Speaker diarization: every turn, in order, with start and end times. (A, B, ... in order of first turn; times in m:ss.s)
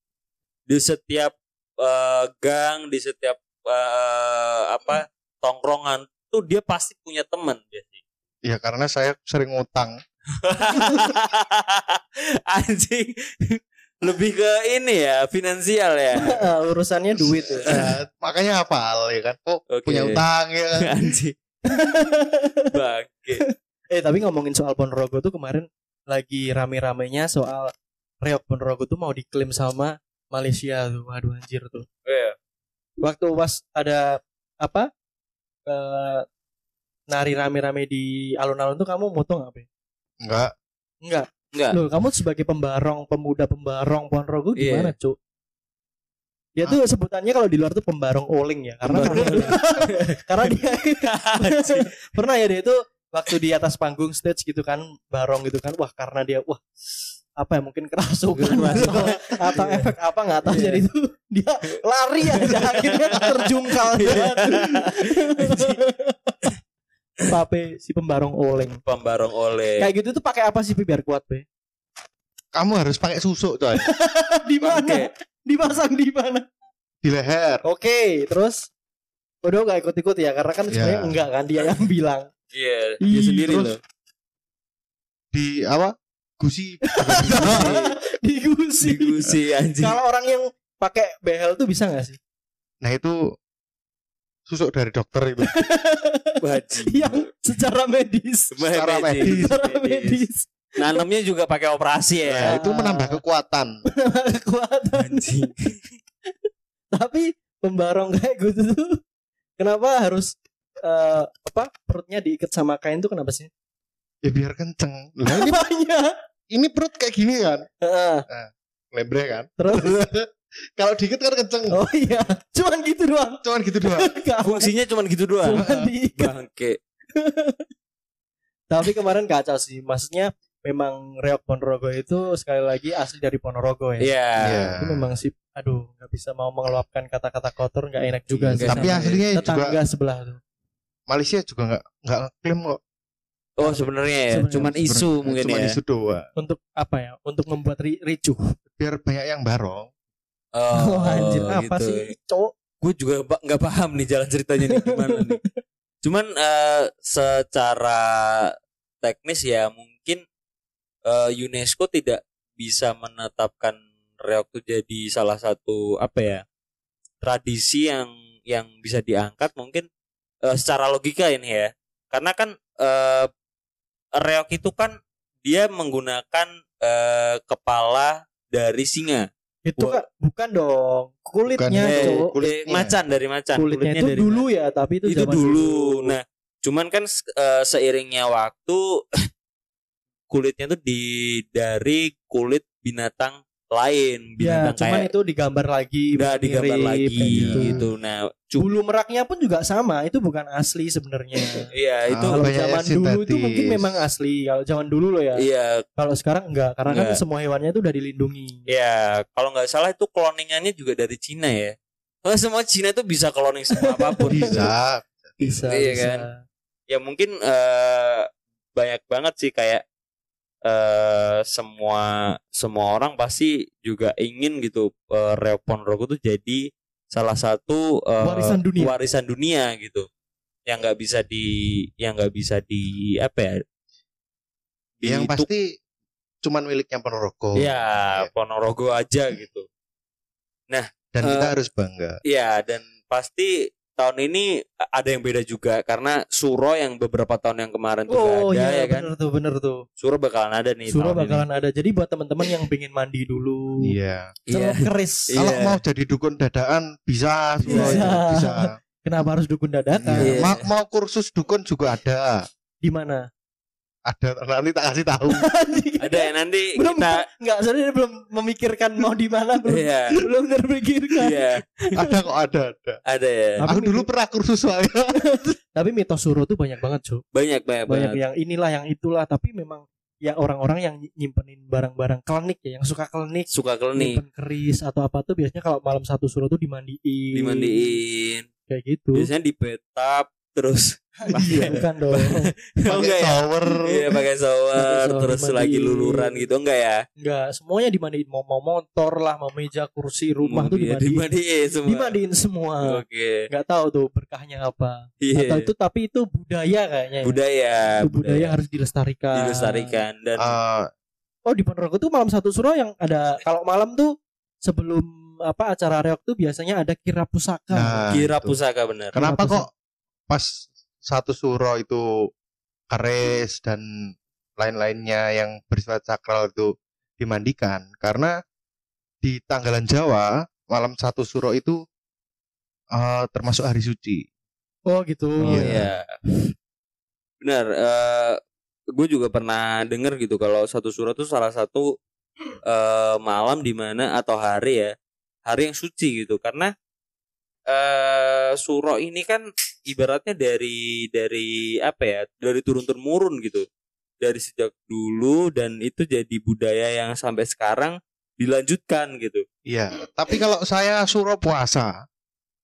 0:00.7-0:08.0 A
0:08.4-0:10.0 B
0:10.4-0:16.4 A
0:16.2-0:17.9 C
0:17.4-0:17.7 A
0:17.7-0:21.1 B
0:19.7-0:20.2 A
0:20.8-0:21.4 A
0:21.7-0:22.7 C
0:22.7-0:23.4 A
0:23.4-0:31.9 C
0:32.1-0:32.4 A
0:33.0-0:34.9 C
0:35.7-0:36.3 C
0:37.1-0:39.7 C
0:40.2-0:40.5 B
0:41.0-0:45.2 C
0:44.6-0:44.9 A
0:46.6-0:56.6 C
0:48.9-0:51.9 A
0:57.4-1:06.4 C
0:58.4-0:59.9 A
1:00.5-1:00.8 A
1:02.3-1:05.8 A
1:07.3-1:08.8 C
1:08.9-1:09.9 A
1:09.8-1:11.4 C
1:12.6-1:13.8 B
1:13.8-1:16.5 C
1:14.6-1:15.1 A
1:17.0-1:17.6 B
1:17.6-1:18.7 C
1:19.4-1:22.3 C
1:20.7-1:21.1 B
1:22.5-1:23.8 A
1:23.0-1:23.7 C
1:23.5-1:23.7 B
1:25.3-1:27.7 B
1:26.9-1:32.2 C
1:27.4-1:27.9 A
1:28.8-1:30.0 A
1:32.8-1:33.2 B
1:34.5-1:35.5 B
1:35.5-1:38.6 C
1:36.4-1:37.2 A
1:38.6-1:40.2 A
1:38.7-1:39.6 B
1:39.2-1:41.0 C
1:40.8-1:42.6 A
1:42.2-1:43.7 B
1:42.4-1:43.2 C
1:44.0-1:45.3 C
1:45.0-1:45.9 A
1:46.9-1:49.0 C
1:49.6-1:53.5 C
1:54.2-1:55.6 B
1:55.3-1:56.1 C
1:56.5-1:57.7 B
1:57.8-1:58.3 C
1:58.3-2:01.7 B
1:59.6-2:00.0 C
2:01.7-2:04.7 C
2:03.4-2:04.1 B
2:04.4-2:06.8 A
2:05.4-2:06.3 C
2:05.6-2:05.9 B
2:07.2-2:07.6 C
2:08.7-2:14.1 C
2:14.0-2:14.8 A
2:14.4-2:15.1 B
2:14.8-2:20.4 C
2:18.5-2:19.2 A
2:18.6-2:19.8 B
2:21.1-2:22.8 B
2:23.6-2:25.8 A
2:23.6-2:24.8 C
2:24.7-2:26.3 B
2:26.4-2:28.4 C
2:28.8-2:29.9 B
2:30.6-2:32.1 A
2:30.7-2:32.5 C
2:32.8-2:35.4 A
2:34.7-2:35.5 C
2:36.0-2:40.2 A
2:41.1-2:46.4 A
2:47.2-2:49.9 A
2:50.4-2:53.3 A
2:54.2-3:00.0 A
2:59.7-3:02.3 C
3:01.5-3:03.0 B
3:01.8-3:04.4 A
3:03.6-3:06.2 C
3:05.1-3:09.2 A
3:10.3-3:15.1 A
3:14.4-3:17.8 C
3:16.2-3:18.7 A
3:17.2-3:17.8 B
3:18.6-3:21.7 C
3:21.7-3:22.4 A
3:22.1-3:23.9 B
3:22.3-3:25.4 C
3:25.4-3:25.8 A
3:26.0-3:28.6 C
3:26.9-3:27.2 A
3:28.7-3:34.7 A
3:33.8-3:34.6 C
3:34.3-3:35.4 B
3:35.4-3:36.4 C
3:35.6-3:36.3 A
3:36.9-3:39.8 A
3:40.6-3:50.1 A
3:48.2-3:49.0 C
3:50.7-3:53.6 A
3:55.0-3:55.5 A
3:55.0-3:55.8 B
3:56.4-3:58.3 B
3:57.6-3:59.7 A
4:00.7-4:01.5 A
4:01.1-4:02.2 B
4:02.2-4:09.1 A
4:08.1-4:09.8 C
4:10.0-4:11.4 A
4:10.9-4:13.9 C
4:13.8-4:14.3 B
4:14.5-4:15.8 A
4:14.5-4:15.4 C
4:15.4-4:18.8 B
4:17.7-4:18.1 A
4:17.7-4:20.4 C
4:20.0-4:22.4 B
4:20.2-4:20.6 A
4:22.8-4:23.3 C
4:24.1-4:25.4 B
4:25.3-4:31.4 C
4:26.0-4:27.2 A
4:29.7-4:30.2 A
4:31.2-4:31.9 A
4:32.0-4:33.0 B
4:33.1-4:33.6 A
4:33.6-4:34.1 C
4:33.7-4:35.2 B
4:35.2-4:37.2 C
4:37.3-4:38.2 A
4:37.9-4:48.0 C
4:43.5-4:44.2 A
4:47.3-4:48.5 A
4:48.7-4:49.3 C
4:49.1-4:57.0 A
4:51.4-4:51.8 B
4:51.7-4:52.5 C
4:52.9-4:54.1 B
4:54.8-4:56.5 C
4:57.2-5:01.3 C
5:00.4-5:02.1 A
5:01.9-5:07.4 C
5:02.9-5:03.5 A
5:05.2-5:05.7 A
5:07.2-5:08.5 A
5:08.0-5:10.0 C
5:09.4-5:10.5 A
5:10.4-5:10.9 B
5:11.5-5:14.1 C
5:14.6-5:18.0 C
5:17.7-5:18.6 B
5:18.1-5:19.2 A
5:19.1-5:19.7 B
5:19.2-5:19.6 C
5:20.3-5:22.0 B
5:22.9-5:28.3 B
5:29.2-5:31.8 B
5:32.9-5:34.2 B
5:34.9-5:35.8 C
5:35.4-5:35.9 B
5:35.5-5:36.1 A
5:37.4-5:38.4 A
5:39.0-5:41.9 A
5:42.7-5:44.9 A
5:45.5-5:46.7 A
5:47.7-5:53.7 A
5:54.2-5:59.4 A
5:59.7-6:02.0 B